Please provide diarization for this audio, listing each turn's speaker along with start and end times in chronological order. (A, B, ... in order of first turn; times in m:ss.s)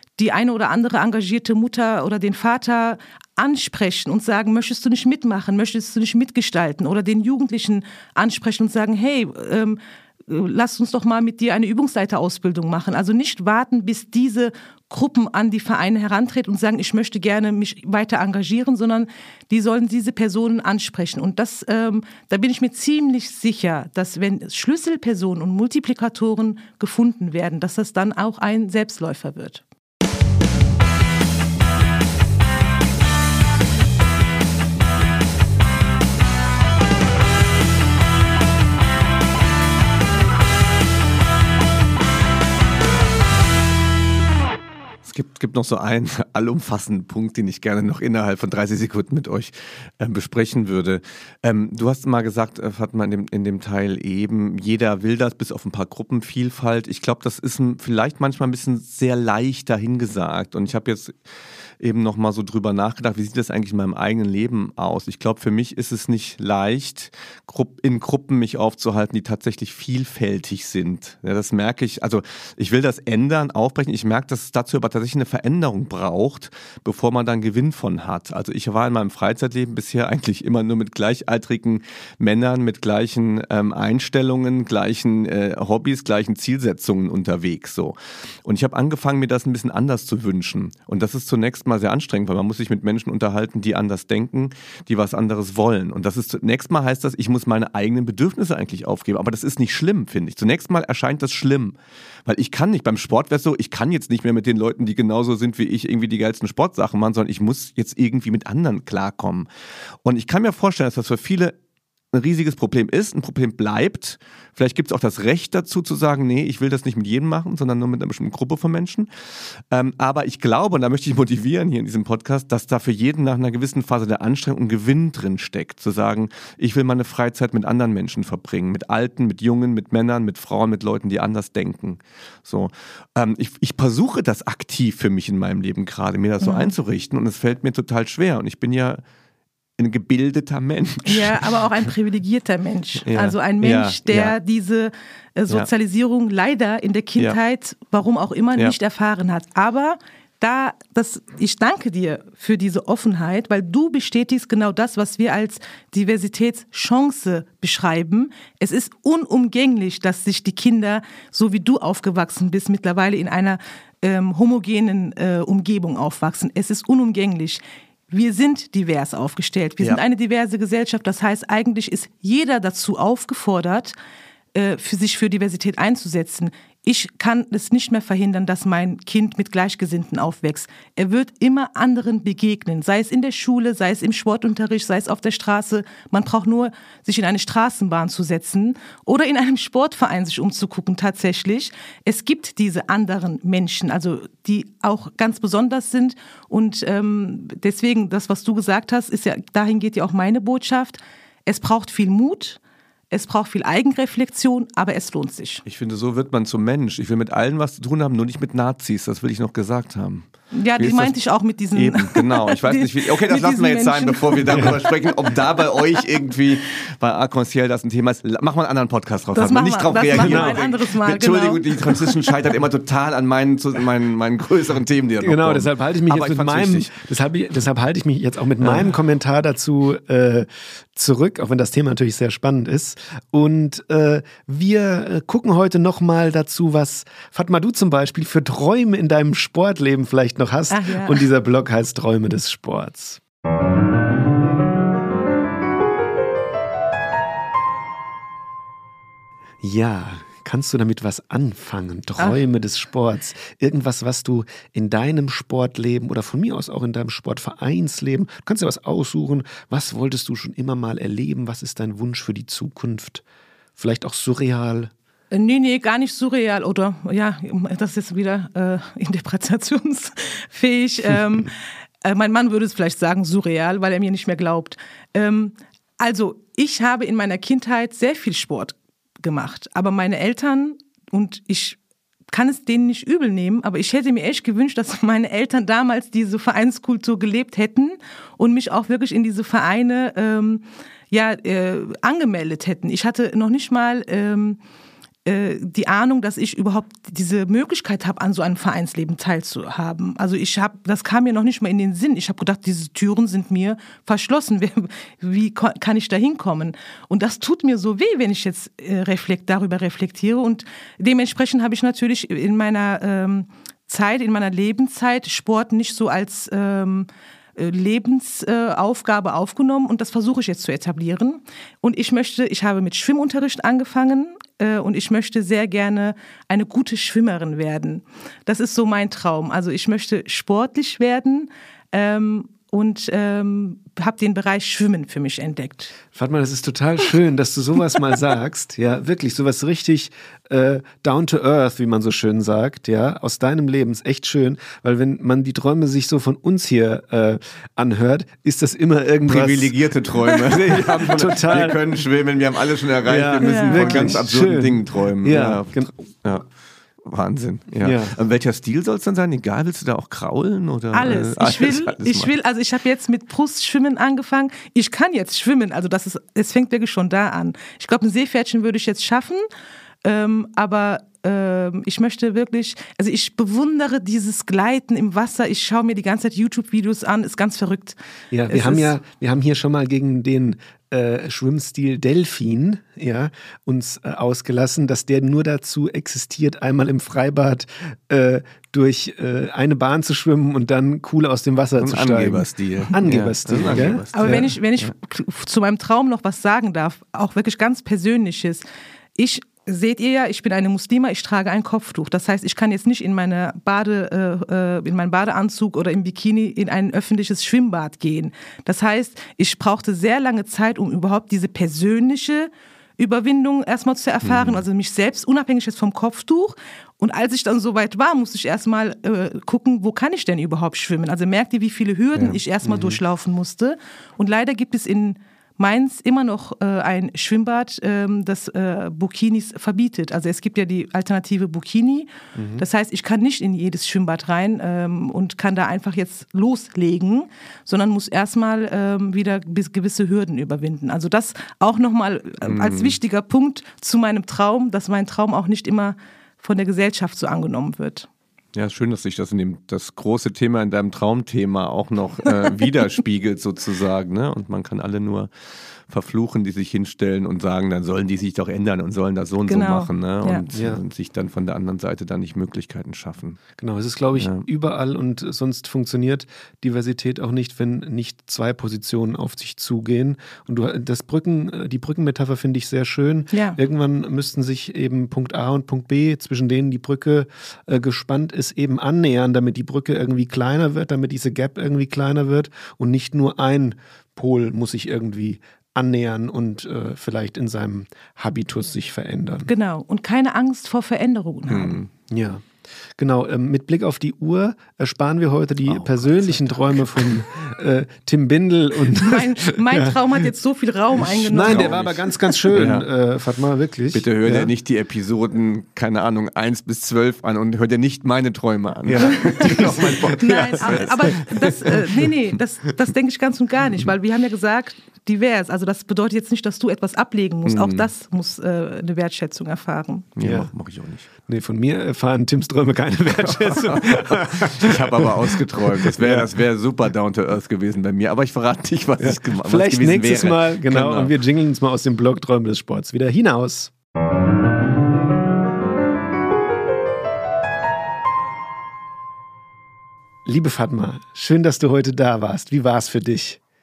0:00.2-0:29.6 A
0:45.0-1:01.2 B
1:01.8-1:49.5 B
1:50.0-1:51.5 B
1:52.1-2:19.0 B
2:16.4-2:16.7 A
2:19.8-2:21.4 B
2:21.0-2:53.9 A
2:23.0-2:24.4 B
2:54.5-3:22.6 A
3:23.1-3:25.6 A
3:25.6-3:31.1 B
3:30.5-3:35.3 A
3:31.7-3:46.9 B
3:39.3-3:42.1 A
3:40.1-3:40.6 C
3:45.2-4:03.2 C
3:48.6-3:48.9 B
4:00.7-4:01.3 A
4:09.6-4:23.2 C
4:23.8-4:24.9 C
4:25.3-4:31.5 A
4:32.0-4:41.8 A
4:42.3-4:54.6 A
4:55.2-5:36.0 A
5:36.1-5:49.8 C
5:49.3-5:56.4 B
5:50.4-5:51.8 C
5:53.0-5:55.9 C
5:53.4-5:54.1 A
5:57.0-6:02.3 B
5:57.8-5:58.1 C
6:00.9-6:09.4 A
6:10.0-6:18.0 A
6:18.3-6:34.5 C
6:18.5-6:18.9 A
6:31.8-6:34.9 B
6:34.1-6:38.6 A
6:39.2-7:28.1 A
6:54.3-6:54.6 B
7:02.6-7:03.0 C
7:12.4-7:12.6 C
7:22.4-7:23.0 B
7:28.5-7:35.3 B
7:35.9-7:43.4 B
7:39.5-7:40.4 A
7:40.5-7:40.8 C
7:43.6-8:09.5 C
7:44.2-7:44.5 B
7:53.3-7:53.6 A
8:09.4-8:11.8 A
8:11.5-8:11.9 B
8:12.0-8:20.0 C
8:15.6-8:17.2 B
8:19.0-8:21.8 A
8:21.0-8:24.5 C
8:21.4-8:22.8 B
8:23.9-8:31.8 B
8:28.8-8:30.9 C
8:30.2-8:40.1 A
8:37.4-8:37.9 B
8:40.2-8:41.1 B
8:40.2-8:40.5 C
8:41.2-8:46.3 C
8:43.2-8:51.1 B
8:49.0-8:53.7 C
9:00.2-9:03.4 C